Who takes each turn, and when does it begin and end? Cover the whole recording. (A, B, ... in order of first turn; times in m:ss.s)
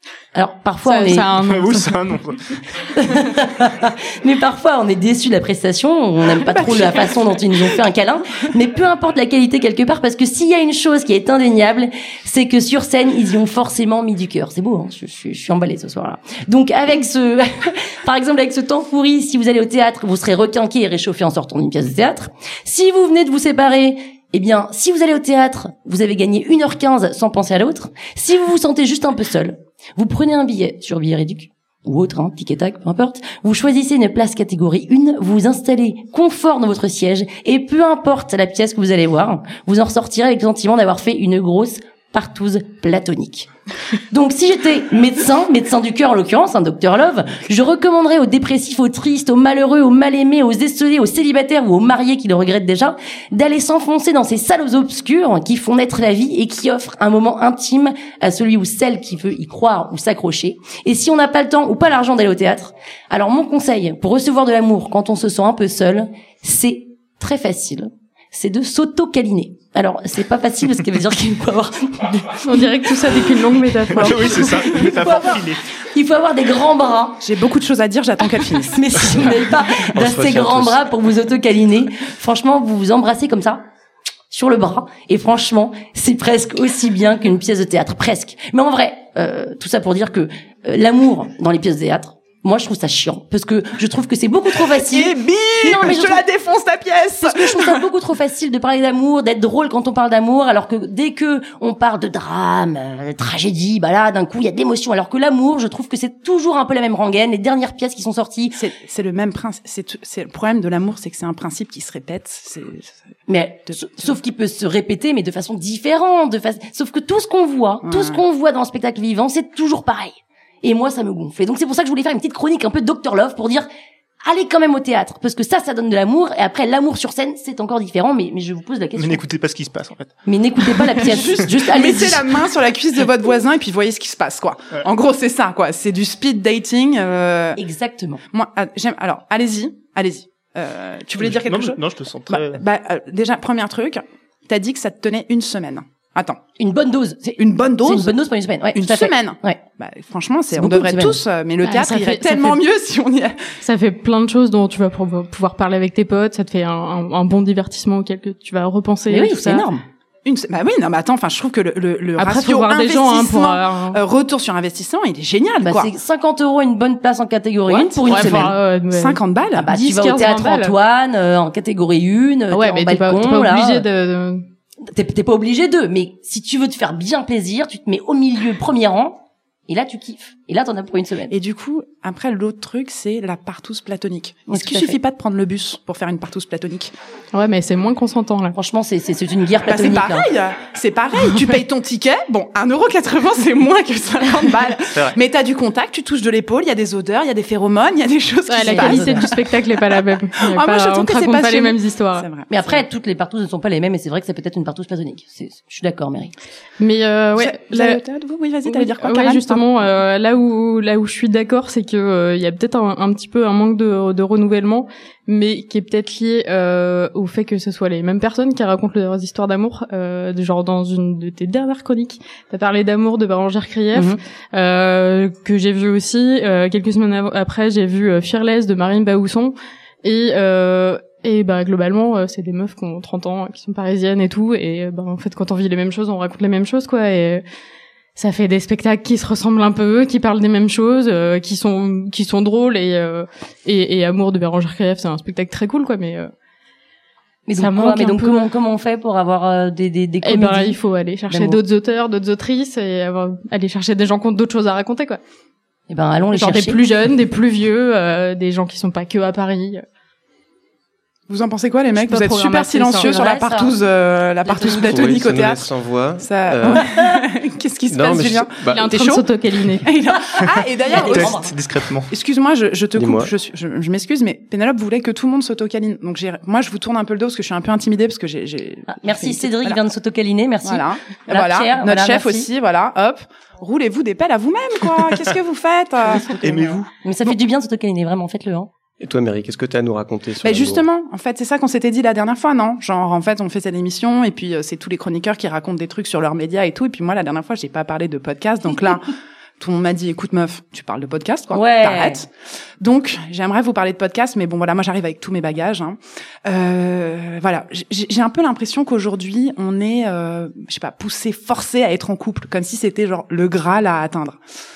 0:00.3-0:01.3 A
0:00.8-0:02.0 B
0:01.4-0:02.8 C
0:02.8-0:43.5 A
0:06.4-0:07.1 D
0:44.1-1:12.6 A
1:12.4-1:14.8 B
1:13.9-1:15.6 C
1:14.8-1:17.2 A
1:17.2-1:18.9 D
1:18.7-1:23.6 A
1:19.9-1:20.8 E
1:24.3-1:36.2 A
1:34.8-1:37.8 D
1:37.2-1:48.6 A
1:48.5-1:53.0 D
1:53.3-2:03.7 A
1:57.8-1:58.2 D
2:04.2-2:09.2 A
2:09.0-2:10.1 C
2:10.3-2:12.3 A
2:11.1-2:17.6 D
2:17.6-2:18.2 A
2:18.3-2:26.4 D
2:21.2-2:22.6 C
2:26.6-2:29.6 A
2:27.4-2:28.2 D
2:28.7-2:33.4 D
2:30.5-2:31.2 A
2:31.6-2:32.6 B
2:33.6-2:39.7 B
2:39.1-2:39.8 A
2:40.2-2:45.9 D
2:42.2-2:44.0 B
2:45.6-2:48.6 A
2:47.7-2:49.7 D
2:48.0-2:50.8 B
2:49.5-2:53.8 A
2:52.5-2:54.4 B
2:54.9-3:01.3 A
3:01.3-3:06.9 D
3:04.5-3:05.0 A
3:07.3-3:08.6 B
3:08.5-3:10.3 A
3:09.6-3:19.4 D
3:14.9-3:15.2 C
3:18.5-3:22.3 B
3:18.6-3:19.3 A
3:20.4-3:22.7 D
3:22.5-3:26.3 A
3:26.8-3:28.0 B
3:27.4-3:29.7 D
3:28.6-3:57.4 B
3:43.9-3:44.2 A
3:58.2-4:06.3 B
4:07.4-4:10.8 A
4:07.5-4:08.5 B
4:10.2-4:15.2 B
4:11.3-4:11.6 A
4:15.9-4:16.8 A
4:16.3-4:19.8 B
4:21.3-4:25.7 D
4:22.0-4:23.2 B
4:23.0-4:23.8 A
4:24.4-4:25.2 A
4:24.7-4:26.9 E
4:26.2-4:29.2 D
4:27.9-4:28.9 E
4:28.7-4:29.9 B
4:29.8-4:31.4 D
4:30.9-4:31.5 A
4:30.9-4:32.1 C
4:32.1-4:39.8 D
4:32.9-4:33.3 E
4:38.9-4:42.5 A
4:40.6-4:46.8 D
4:46.4-4:46.9 C
4:47.0-4:48.7 A
4:49.0-4:50.8 E
4:50.4-5:02.3 D
5:01.5-5:02.2 A
5:02.8-5:14.4 D